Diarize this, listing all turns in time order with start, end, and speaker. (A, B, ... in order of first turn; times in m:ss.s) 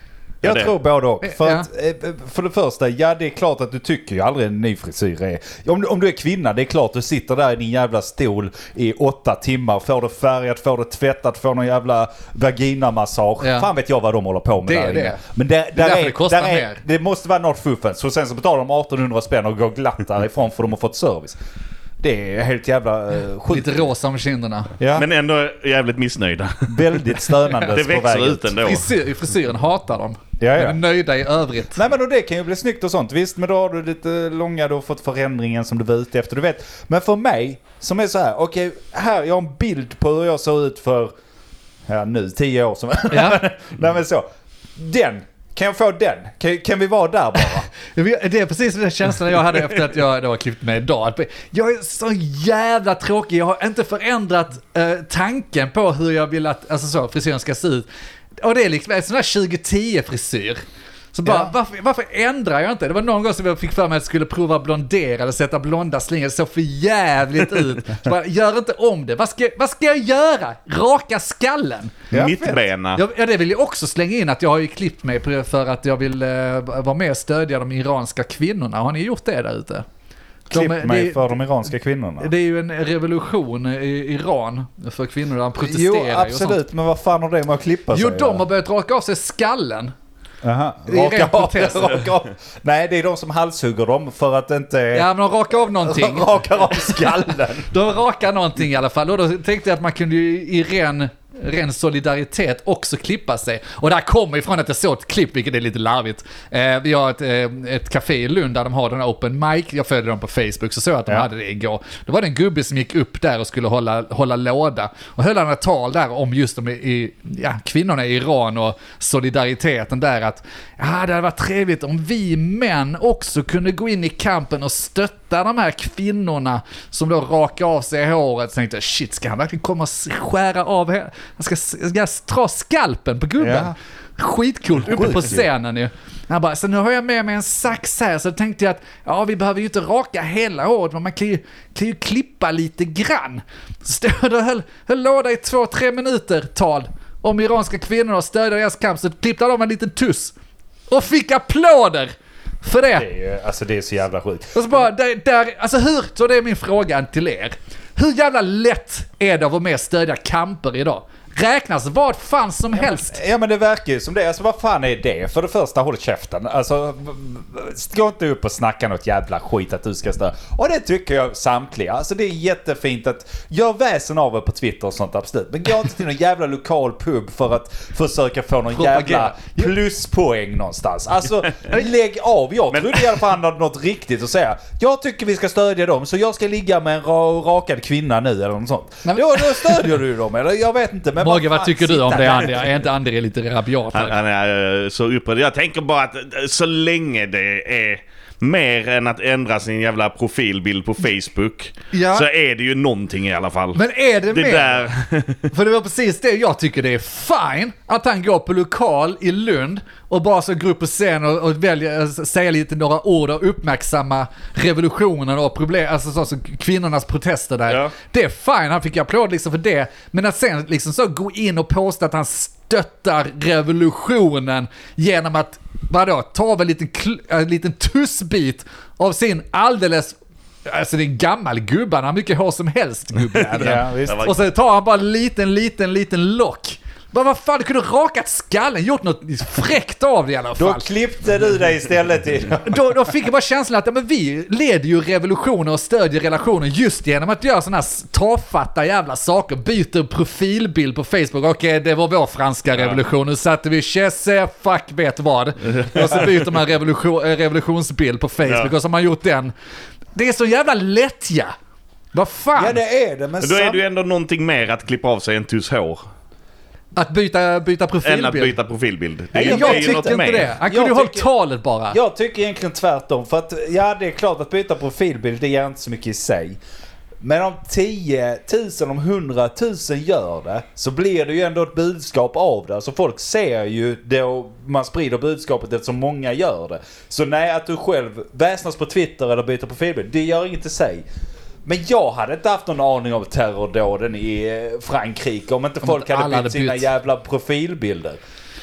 0:00.4-0:21.4 A
0:00.4-0:00.7 B
0:01.2-0:01.7 C
0:13.4-0:13.7 C
0:14.6-0:15.2 C
0:15.7-0:16.8 C
0:22.0-0:23.9 A
0:23.5-0:24.8 C
0:24.8-0:25.1 A
0:24.9-0:28.9 B
0:26.7-0:28.6 A
0:28.6-0:31.8 C
0:30.4-0:30.8 A
0:31.7-0:41.1 A
0:41.9-0:44.2 A
0:43.1-0:43.4 C
0:44.8-0:47.7 A
0:47.9-0:57.9 C
0:58.4-1:00.6 C
1:01.1-1:12.0 C
1:01.2-1:01.5 A
1:12.1-1:12.6 A
1:12.1-1:13.0 B
1:13.0-1:19.9 C
1:20.5-1:21.4 C
1:20.5-1:22.3 A
1:22.2-1:26.6 C
1:25.6-1:28.4 A
1:27.9-1:29.9 C
1:30.4-1:35.1 A
1:30.9-1:32.1 C
1:34.9-1:36.9 C
1:35.8-1:37.7 A
1:37.7-2:30.4 C
2:13.4-2:13.8 A
2:14.8-2:15.5 A
2:30.9-2:33.1 C
2:33.0-2:34.8 A
2:34.5-2:43.2 C
2:42.7-3:12.8 A
2:58.7-2:59.7 C
3:09.0-3:09.9 C
3:11.2-3:14.2 C
3:13.9-3:25.5 B
3:21.9-3:22.3 C
3:23.8-3:24.9 C
3:25.5-4:00.9 C
3:53.5-3:54.4 B
3:53.6-3:54.3 A
4:00.6-4:02.8 A
4:02.6-4:19.5 C
4:15.8-4:16.3 B
4:18.5-4:18.7 B
4:20.2-4:21.5 C
4:22.1-4:22.8 C
4:22.6-4:23.8 A
4:23.4-4:26.0 B
4:27.0-4:28.6 C
4:28.0-4:30.5 B
4:29.3-4:31.3 A
4:29.4-4:32.0 C
4:31.9-4:36.6 A
4:37.2-4:51.0 A
4:51.6-4:58.2 A
4:55.8-4:56.9 C